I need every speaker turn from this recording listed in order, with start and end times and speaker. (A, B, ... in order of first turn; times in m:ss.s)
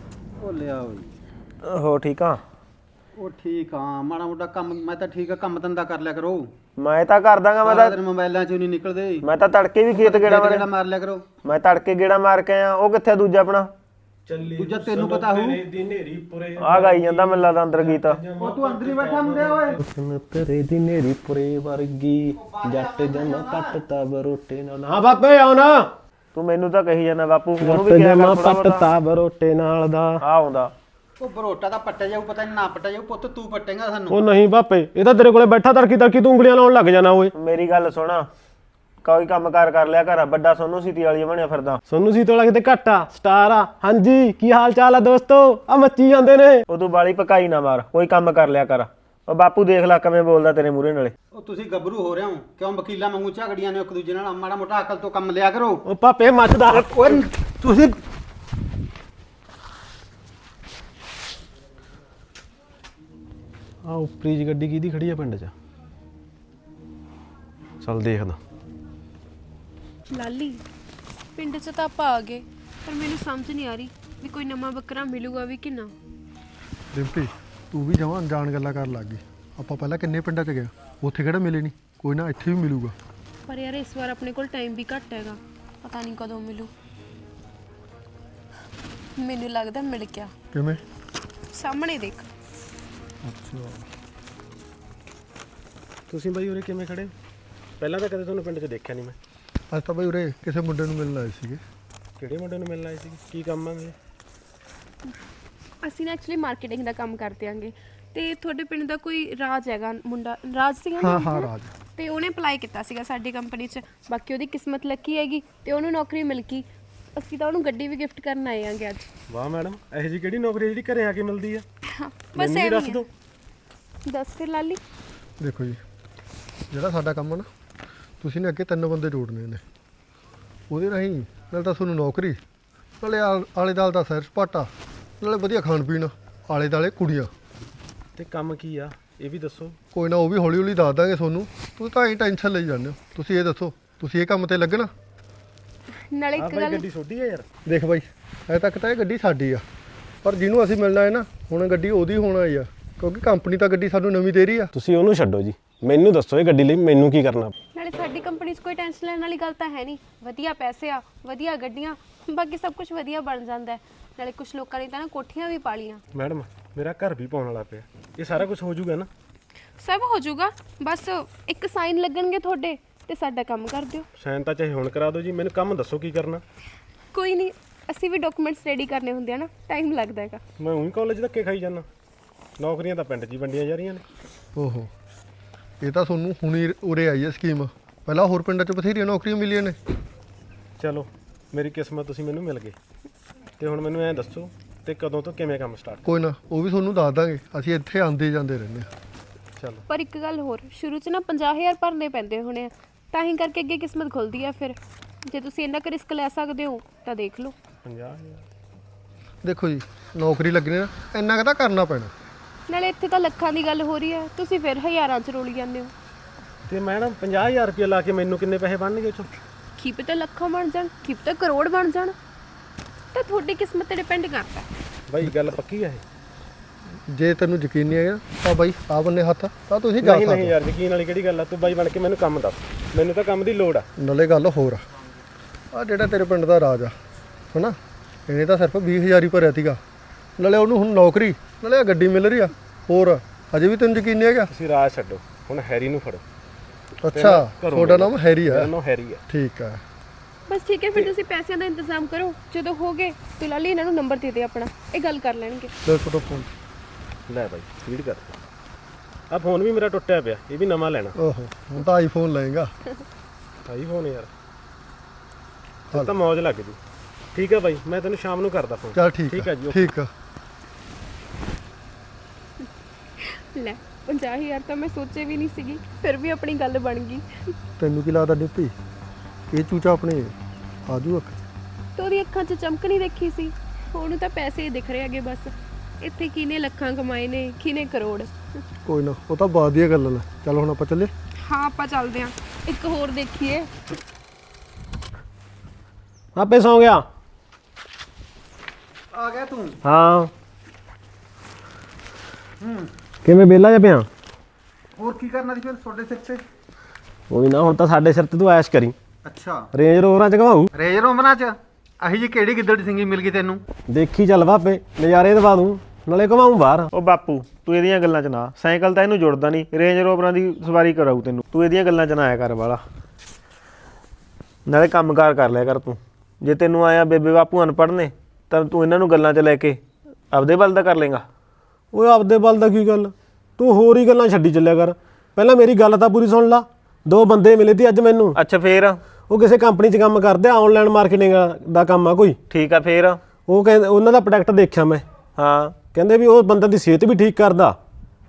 0:00.4-0:01.1 A
0:01.6-0:02.4 B
0:03.2-0:06.5 A
0:06.8-0:08.0 B
0:07.6-0:09.3 A
0:09.2-0:10.6 B
0:09.9-0:11.3 A
0:11.4-0:13.7 B
0:14.3-0:25.9 C
0:14.6-0:15.6 A
0:16.6-0:18.2 B
0:18.4-0:19.8 A
0:22.4-0:23.6 A
0:26.3-0:28.8 B
0:27.6-0:30.2 C
0:30.2-0:30.7 B
0:31.2-0:34.2 A
0:34.1-0:37.3 C
0:37.4-0:38.3 B
0:39.0-0:41.8 B
0:41.9-0:46.6 C
0:46.7-0:51.1 B
0:51.3-0:55.8 A
0:55.8-0:57.2 C
0:56.7-0:57.9 A
1:03.8-1:05.5 C
1:07.8-1:08.4 C
1:10.1-1:10.6 D
1:11.4-1:15.9 D
1:16.9-1:23.0 E
1:23.5-1:26.7 D
1:29.2-1:30.3 D
1:30.5-1:30.8 E
1:31.5-1:32.3 D
1:33.2-1:33.9 E
1:36.1-1:37.1 C
1:37.8-1:39.2 C
1:39.7-1:41.6 E
1:42.2-1:44.0 C
1:45.8-1:59.1 D
1:51.0-1:51.7 E
1:59.3-2:01.6 C
2:02.0-2:03.0 D
2:02.4-2:03.1 C
2:04.1-2:04.8 D
2:05.4-2:05.8 E
2:06.7-2:07.5 E
2:08.2-2:09.6 E
2:10.7-2:12.4 E
2:13.0-2:17.3 E
2:18.2-2:19.8 C
2:19.9-2:24.9 E
2:26.1-2:26.9 D
2:26.4-2:27.5 C
2:27.7-2:29.6 E
2:30.2-2:34.7 E
2:34.7-2:37.5 C
2:37.7-2:46.0 D
2:46.1-2:49.1 C
2:49.8-2:54.1 D
2:54.2-2:56.4 C
2:57.1-3:00.4 D
3:00.6-3:01.9 C
3:02.6-3:04.0 C
3:04.6-3:04.9 E
3:05.8-3:09.8 E
3:10.8-3:12.8 C
3:13.6-3:16.0 C
3:16.1-3:18.9 E
3:19.6-3:19.8 C
3:19.9-3:27.6 D
3:27.8-3:28.4 C
3:29.4-3:32.1 E
3:32.7-3:35.9 D
3:36.7-3:39.3 C
3:39.8-3:42.2 D
3:43.1-3:44.7 D
3:45.1-3:46.0 C
3:47.1-3:50.6 E
3:50.0-3:53.9 C
3:54.0-3:54.8 E
3:55.7-3:57.0 E
3:57.5-3:59.8 E
4:00.4-4:04.5 E
4:04.5-4:06.2 C
4:07.0-4:08.7 E
4:07.1-4:09.2 C
4:09.3-4:09.8 E
4:10.5-4:15.7 D
4:15.9-4:16.5 E
4:17.3-4:18.4 C
4:19.3-4:21.2 C
4:21.2-4:22.7 E
4:23.7-4:24.3 C
4:25.9-4:26.8 C
4:27.3-4:29.9 C
4:28.9-4:30.1 E
4:33.2-4:37.3 D
4:37.8-4:38.8 E
4:39.5-4:40.3 E
4:40.9-4:41.4 E
4:42.0-4:48.3 D
4:48.9-4:51.1 E
4:51.5-4:53.7 D
4:56.4-4:57.1 C
4:59.1-4:59.8 A
4:59.8-5:00.3 C
5:02.6-5:02.9 A
5:03.2-5:04.1 C
5:05.0-5:06.4 A
5:07.3-5:09.0 C
5:09.2-5:09.7 A
5:09.7-5:10.7 C
5:10.7-5:13.6 A
5:13.9-5:16.9 C
5:16.9-5:22.8 B
5:24.7-5:29.8 B
5:30.3-5:31.2 B
5:31.9-5:38.4 C
5:38.4-5:39.0 B
5:39.3-5:42.4 C
5:42.5-5:43.2 B
5:43.5-5:45.0 C
5:45.4-5:45.8 B
5:45.8-5:47.8 C